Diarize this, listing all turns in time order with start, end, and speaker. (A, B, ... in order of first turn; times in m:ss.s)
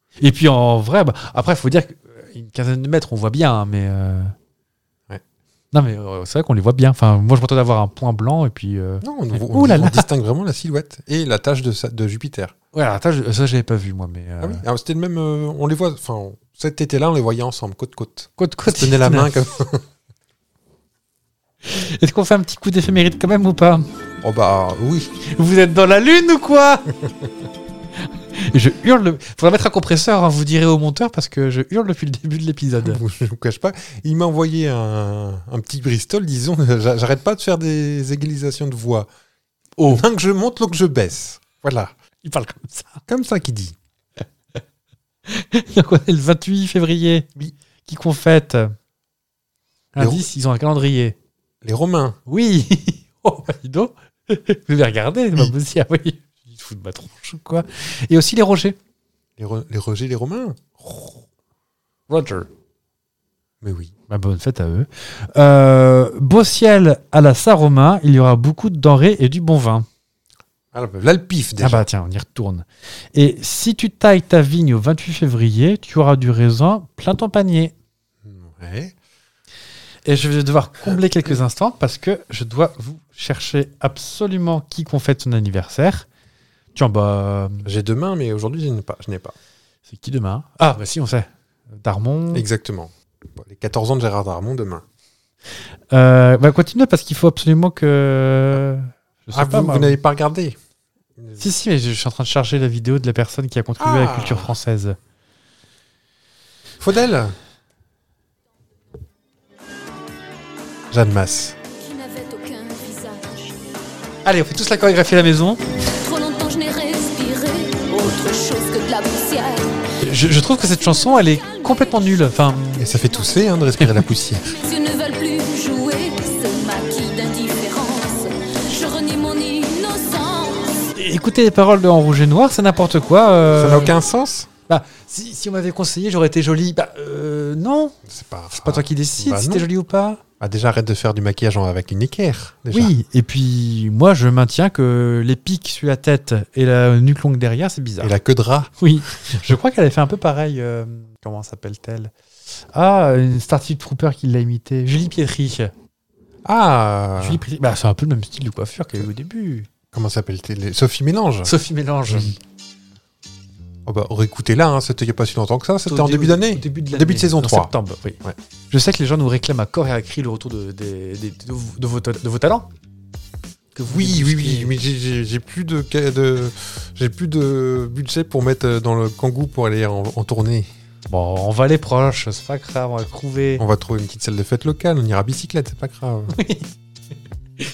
0:00.2-0:04.3 A
0:05.7-0:10.1 A
0:09.0-0:12.5 B
0:12.7-0:14.6 A
0:14.4-0:19.8 B
0:18.4-0:19.4 A
0:21.6-0:23.9 A
0:24.2-0:25.1 B
0:25.2-0:26.9 A
0:28.4-0:33.0 A
0:32.8-0:39.1 B
0:39.8-0:40.0 A
0:39.9-0:41.9 B
0:42.2-0:43.0 A
0:43.1-0:43.8 B
0:45.3-0:47.3 A
0:47.8-0:48.7 A
0:49.9-0:51.2 A
0:50.0-0:50.3 B
0:51.6-0:52.2 B
0:52.3-0:58.8 A
0:59.4-1:00.6 B
1:00.8-1:01.2 A
1:02.1-1:02.5 A
1:03.6-1:03.9 B
1:04.1-1:09.8 A
1:10.7-1:11.8 B
1:11.6-1:17.7 A
1:18.2-1:18.9 B
1:20.0-1:26.1 A
1:26.7-1:27.7 A
1:27.6-1:29.3 B
1:29.9-1:31.3 A
1:31.8-1:32.4 A
1:32.3-1:34.8 B
1:35.9-1:40.0 A
1:39.3-1:40.6 B
1:41.4-1:45.0 A
1:43.8-1:44.5 B
1:46.8-1:47.4 B
1:50.9-1:51.5 B
1:51.7-1:53.6 C
1:54.2-1:55.6 A
1:55.9-1:59.8 C
2:00.0-2:02.8 A
2:01.3-2:01.7 C
2:02.8-2:04.5 B
2:04.5-2:10.9 C
2:10.9-2:13.9 A
2:13.5-2:14.5 B
2:14.7-2:18.0 A
2:18.0-2:19.7 B
2:18.5-2:20.2 A
2:20.4-2:22.9 B
2:22.7-2:28.1 A
2:28.0-2:28.7 B
2:28.8-2:32.1 A
2:32.7-2:35.7 A
2:36.4-2:37.4 B
2:37.2-2:39.7 A
2:39.9-2:41.5 B
2:41.4-2:42.3 A
2:42.1-2:42.3 B
2:43.8-2:48.4 B
2:45.8-2:52.7 A
2:53.7-2:54.7 A
2:53.9-3:00.7 B
3:01.1-3:03.6 A
3:03.6-3:06.3 B
3:06.3-3:06.7 A